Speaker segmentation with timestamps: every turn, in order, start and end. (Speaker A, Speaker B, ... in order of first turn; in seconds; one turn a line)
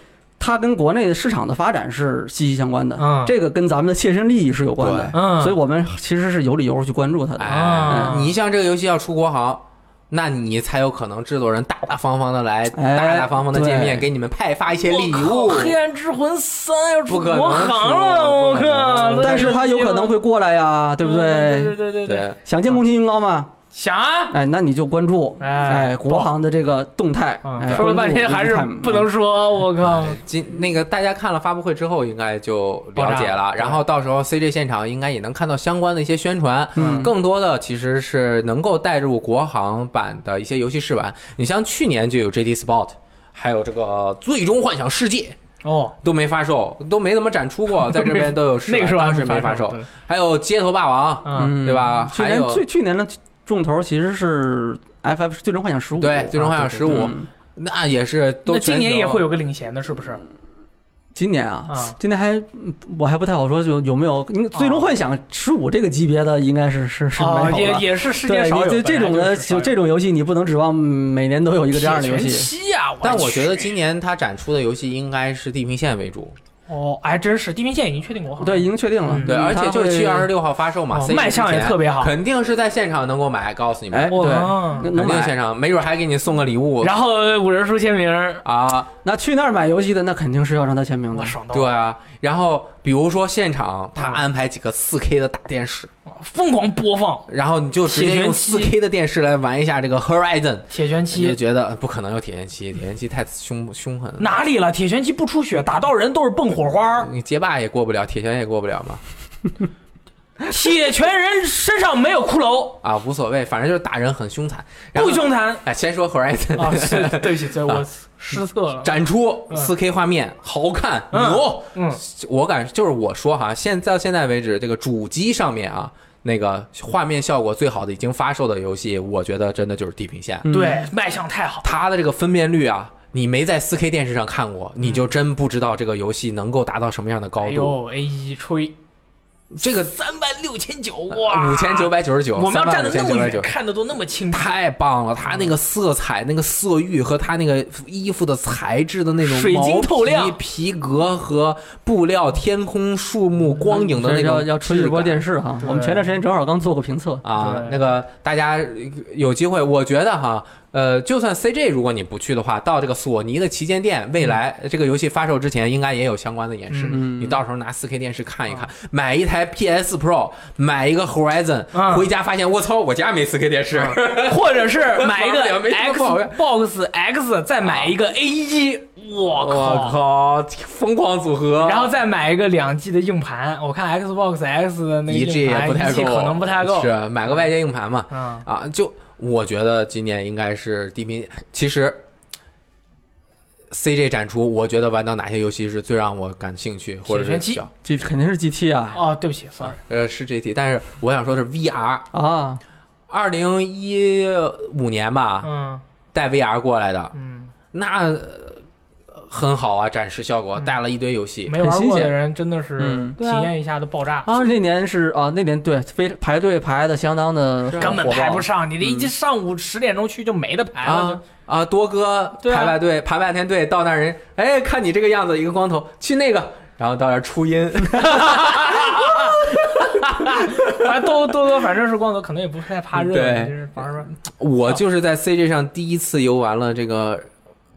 Speaker A: 0.4-8.2
Speaker B: 3.0-3.3
Speaker C: 4.8-5.1
Speaker B: 5.1-5.5
Speaker C: 7.4-15.8
Speaker B: 7.5-8.3
Speaker A: 12.7-14.1
Speaker B: 14.9-20.2
Speaker C: 17.1-19.5
Speaker A: 19.1-21.8
Speaker B: 21.0-22.8
Speaker C: 22.1-22.4
Speaker A: 22.4-23.5
Speaker B: 23.7-24.4
Speaker A: 24.3-29.1
Speaker B: 25.4-26.3
Speaker B: 27.4-30.2
Speaker C: 29.8-45.4
Speaker B: 33.0-33.8
Speaker B: 36.8-37.1
Speaker A: 36.8-37.1
Speaker B: 45.6-46.0
Speaker C: 46.0-52.6
Speaker B: 47.9-49.9
Speaker B: 51.2-51.5
Speaker A: 51.4-57.3
Speaker C: 56.0-59.2
Speaker B: 56.9-57.1
Speaker B: 58.5-60.2
Speaker A: 61.1-72.5
Speaker B: 61.7-62.0
Speaker B: 64.5-64.9
Speaker B: 67.2-69.7
Speaker B: 71.7-73.7
Speaker C: 73.0-76.4
Speaker B: 76.7-79.3
Speaker A: 78.4-80.3
Speaker C: 79.2-87.0
Speaker B: 80.9-82.1
Speaker A: 83.9-85.3
Speaker B: 84.1-84.9
Speaker B: 86.8-88.4
Speaker C: 88.4-88.9
Speaker A: 89.0-91.4
Speaker B: 91.1-91.7
Speaker C: 91.5-95.9
Speaker B: 94.0-94.2
Speaker B: 96.1-97.3
Speaker C: 97.3-104.4
Speaker B: 97.8-98.7
Speaker B: 100.7-101.4
Speaker B: 104.2-107.1
Speaker C: 107.0-109.0
Speaker B: 110.5-112.8
Speaker C: 112.8-130.5
Speaker B: 114.9-115.6
Speaker B: 116.5-119.0
Speaker B: 121.1-122.0
Speaker A: 130.4-130.9
Speaker B: 130.5-131.7
Speaker C: 131.6-137.8
Speaker B: 137.4-138.8
Speaker C: 139.6-139.9
Speaker B: 139.6-144.5
Speaker C: 141.1-143.5
Speaker C: 144.3-155.2
Speaker B: 149.2-150.4
Speaker A: 153.7-157.2
Speaker B: 155.6-156.1
Speaker C: 157.2-176.4
Speaker B: 157.3-157.8
Speaker B: 166.7-167.0
Speaker A: 166.9-167.4
Speaker B: 171.7-172.1
Speaker B: 173.8-180.0
Speaker C: 177.6-177.9
Speaker C: 179.3-181.9
Speaker B: 181.6-187.5
Speaker C: 185.1-192.0
Speaker B: 188.1-188.4
Speaker C: 193.7-197.7
Speaker B: 197.1-197.6
Speaker A: 197.8-199.0
Speaker B: 198.9-199.8
Speaker C: 199.6-202.1
Speaker A: 202.1-202.6
Speaker C: 203.1-205.5
Speaker B: 205.4-205.8
Speaker C: 206.1-207.1
Speaker B: 207.1-207.5
Speaker C: 207.7-211.6
Speaker B: 211.5-214.3
Speaker A: 211.6-212.1
Speaker A: 212.8-213.2
Speaker C: 213.2-213.5
Speaker A: 214.3-218.4
Speaker C: 217.7-219.1
Speaker B: 217.8-221.2
Speaker C: 220.8-231.0
Speaker B: 222.4-222.8
Speaker B: 228.0-234.1
Speaker C: 232.9-237.3